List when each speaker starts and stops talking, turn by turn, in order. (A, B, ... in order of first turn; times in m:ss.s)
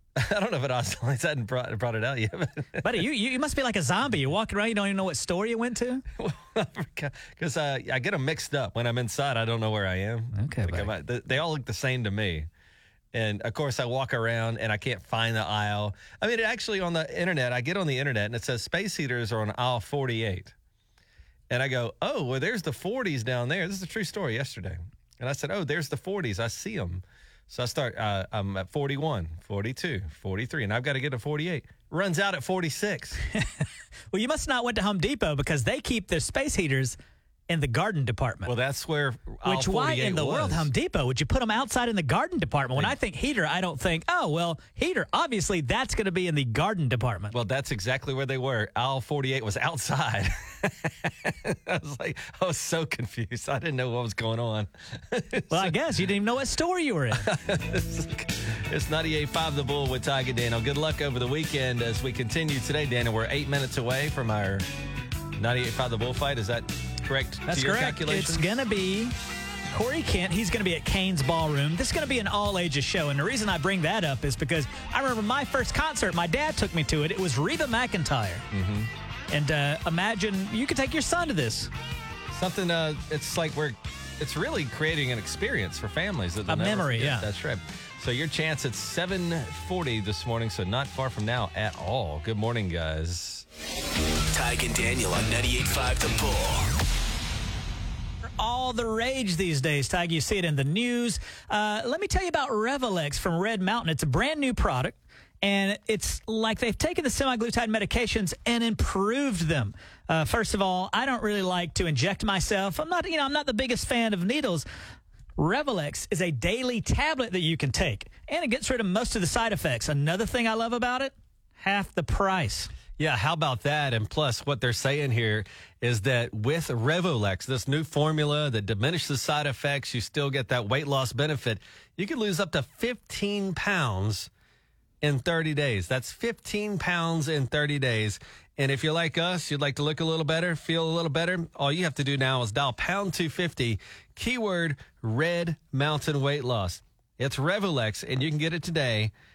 0:00.2-0:02.9 A
0:02.8-0:06.0 B
0:06.2-0:12.5 A
0:10.3-0:10.9 B
0:13.1-0:20.5 A
0:21.5-0:33.2 A
0:34.1-0:37.0 B
0:37.5-0:38.5 B
0:38.4-0:40.7 A
0:39.4-0:47.3 B
0:47.3-0:55.7 A
0:55.5-0:57.3 B
0:57.2-1:04.6 A
1:05.4-1:08.6 A
1:07.5-1:09.1 B
1:09.7-1:18.4 B
1:18.5-1:18.9 A
1:19.3-1:21.7 B
1:22.3-1:33.4 A
1:26.5-1:27.3 B
1:34.3-1:36.7 C
1:38.4-1:54.6 B
1:55.4-2:02.7 B
2:03.0-2:14.3 A
2:15.0-2:29.1 A